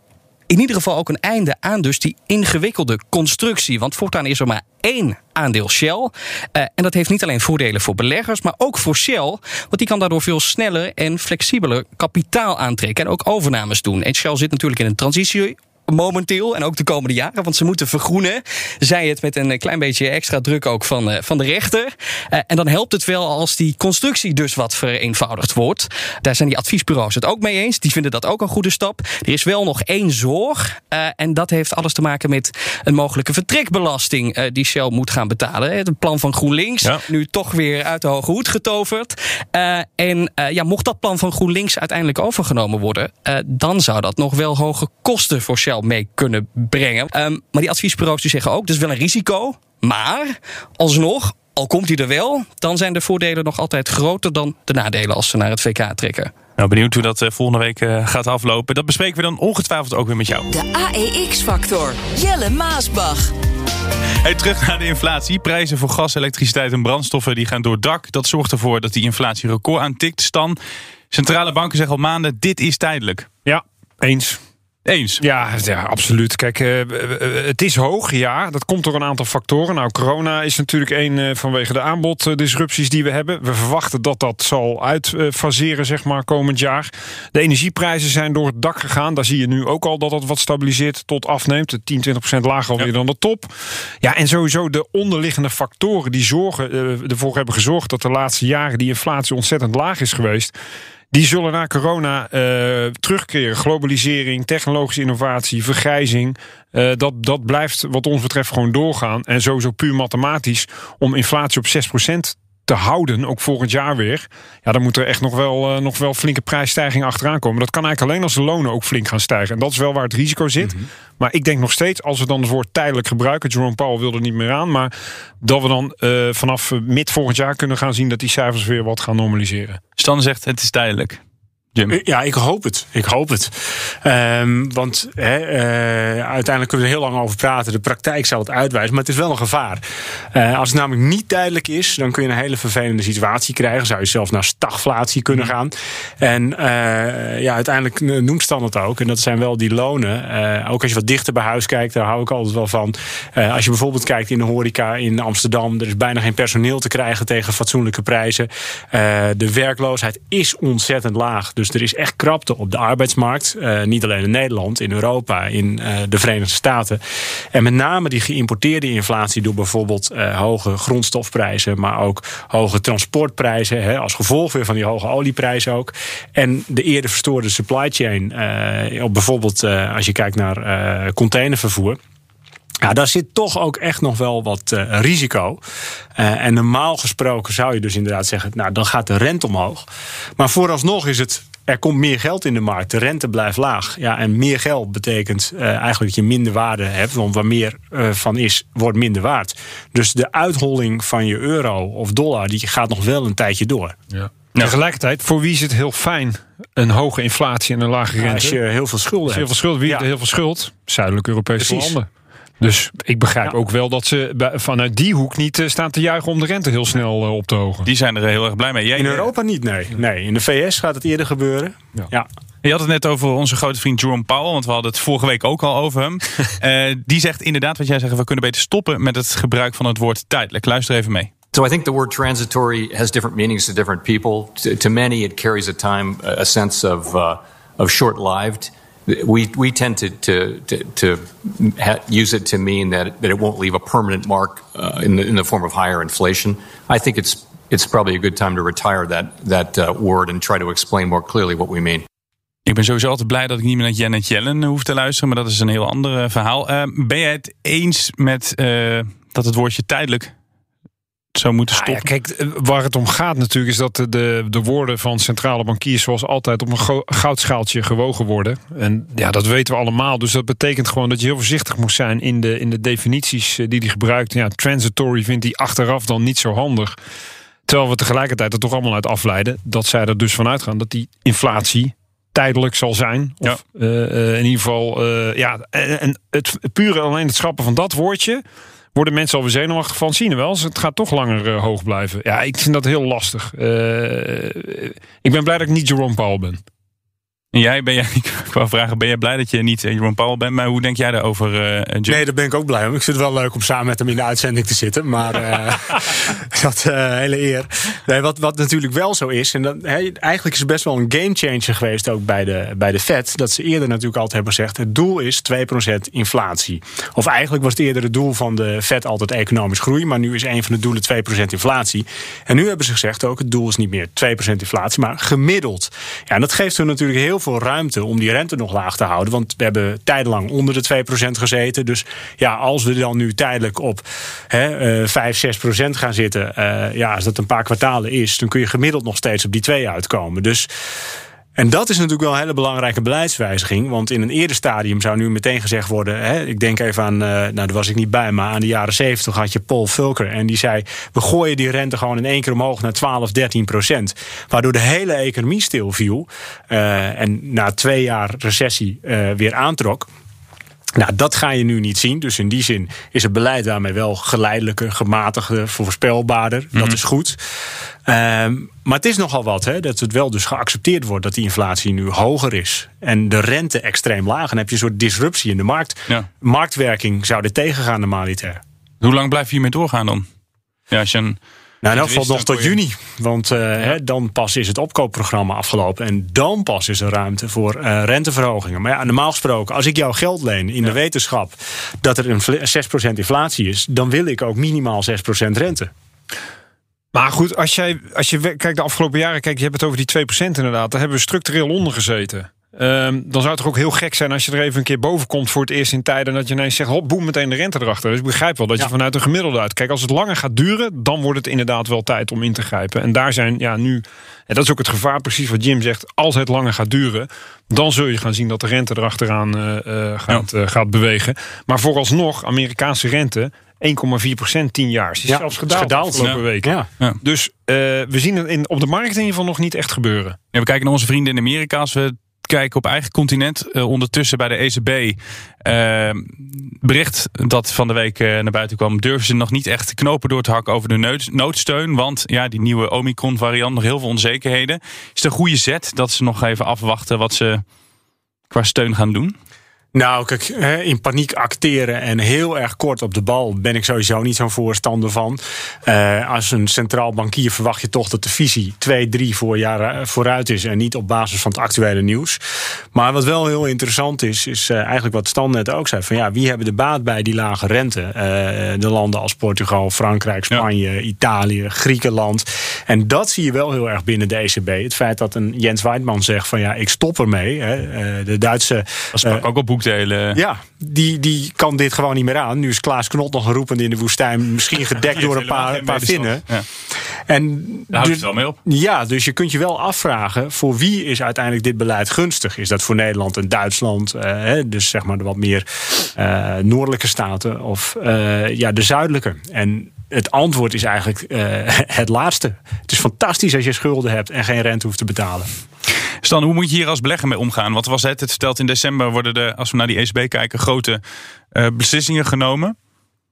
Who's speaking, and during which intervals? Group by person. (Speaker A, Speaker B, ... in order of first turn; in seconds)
Speaker A: 0.5-56.3
Speaker B: 56.6-60.5, 64.2-70.6, 71.1-73.3, 74.8-75.2, 130.0-131.2, 217.9-219.3, 222.6-231.3, 252.7-260.3, 261.4-262.1, 297.5-302.2, 379.0-380.3, 380.9-382.8, 430.5-447.6, 448.5-449.4, 479.1-480.4, 485.1-486.6, 487.9-488.6, 506.2-511.0, 511.5-512.8
Speaker C: 60.5-63.3
Speaker D: 73.5-74.4, 75.2-100.5, 101.1-124.9, 125.4-129.8, 204.2-208.6, 209.3-212.1, 212.6-217.9, 261.7-277.0, 277.7-288.4, 288.9-296.6, 397.1-430.4
Speaker E: 131.9-139.8, 140.3-167.0, 167.5-182.0, 182.8-185.6, 186.2-189.9, 190.4-204.0, 208.2-210.1, 211.6-211.9, 219.0-222.3, 302.1-340.7, 341.6-360.1, 361.0-367.4, 368.1-378.6, 381.8-395.9, 425.2-426.9, 449.9-462.4, 462.9-479.4, 480.3-486.5, 487.3-505.5
Speaker F: 231.5-252.1